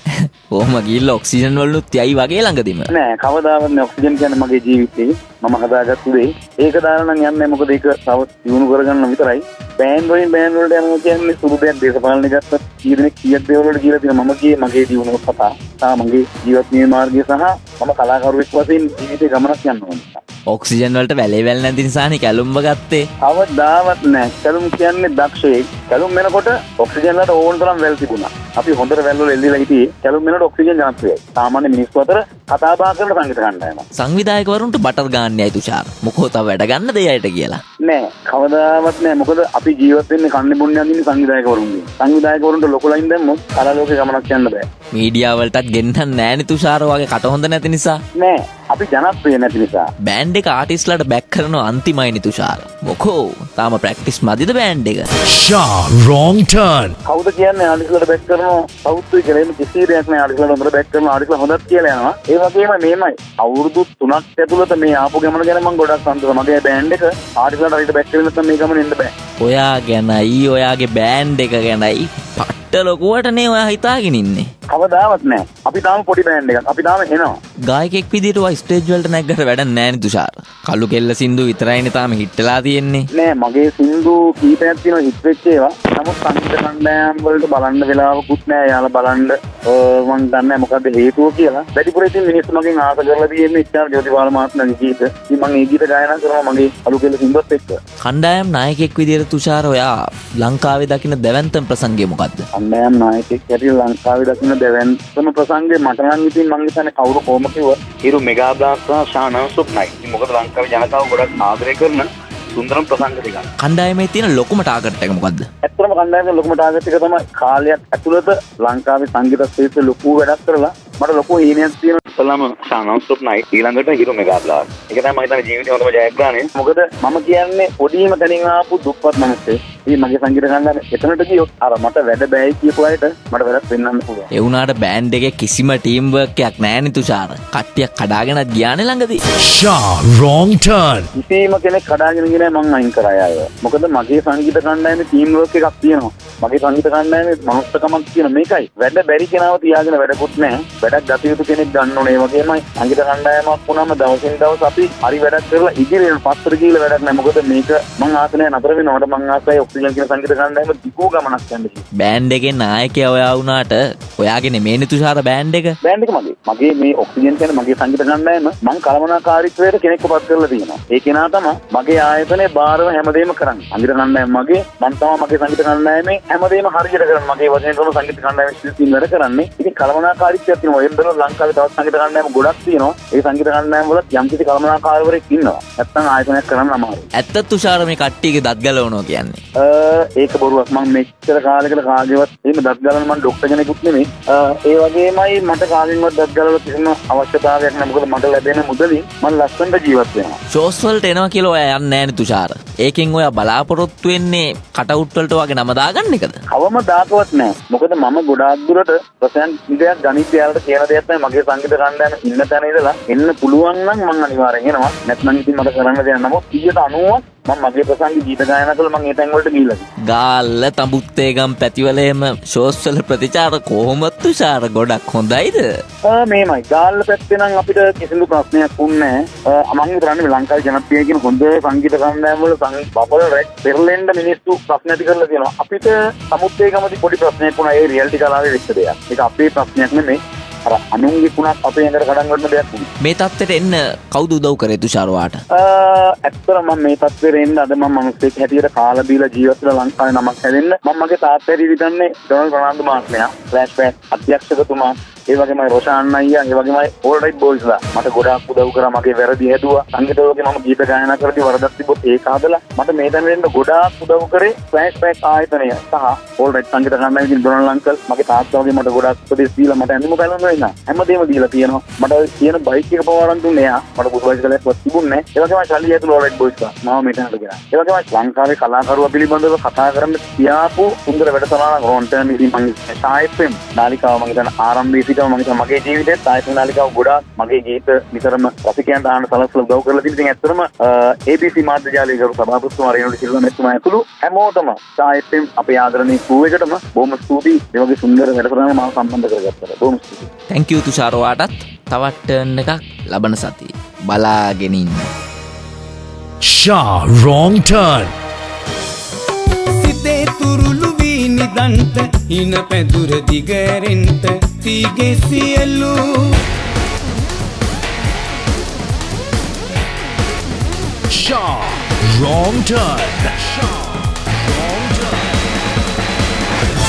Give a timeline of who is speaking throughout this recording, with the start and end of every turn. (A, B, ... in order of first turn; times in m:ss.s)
0:00.2-0:02.9 A
0:02.9-0:20.2 B
0:20.5-0:23.0 A
0:23.2-0:33.8 B
0:34.0-0:37.6 A
0:37.8-0:44.6 B
0:44.9-0:48.0 A
0:48.2-0:49.9 B
0:50.0-0:55.1 A
0:55.2-0:57.0 C
0:57.0-1:09.1 B
1:09.4-1:14.5 A
1:14.7-1:17.3 B
1:17.7-1:23.1 A
1:23.1-1:37.8 B
1:38.0-1:42.4 A
1:42.5-1:53.4 B
1:53.6-1:55.4 A
1:55.6-2:14.3 B
2:14.3-2:19.2 A
2:19.4-2:21.1 C
2:21.1-2:41.8 B
2:42.0-2:45.8 A
2:45.8-3:07.1 B
3:07.2-3:09.4 A
3:09.6-3:20.4 B
3:20.5-3:26.4 A
3:26.5-3:39.8 B
3:40.0-3:45.7 A
3:46.0-4:02.9 B
4:03.0-4:05.4 A
4:05.5-5:00.3 B
5:00.5-5:05.1 A
5:06.4-5:08.1 C
5:09.7-5:16.4 D
5:21.1-5:25.4 C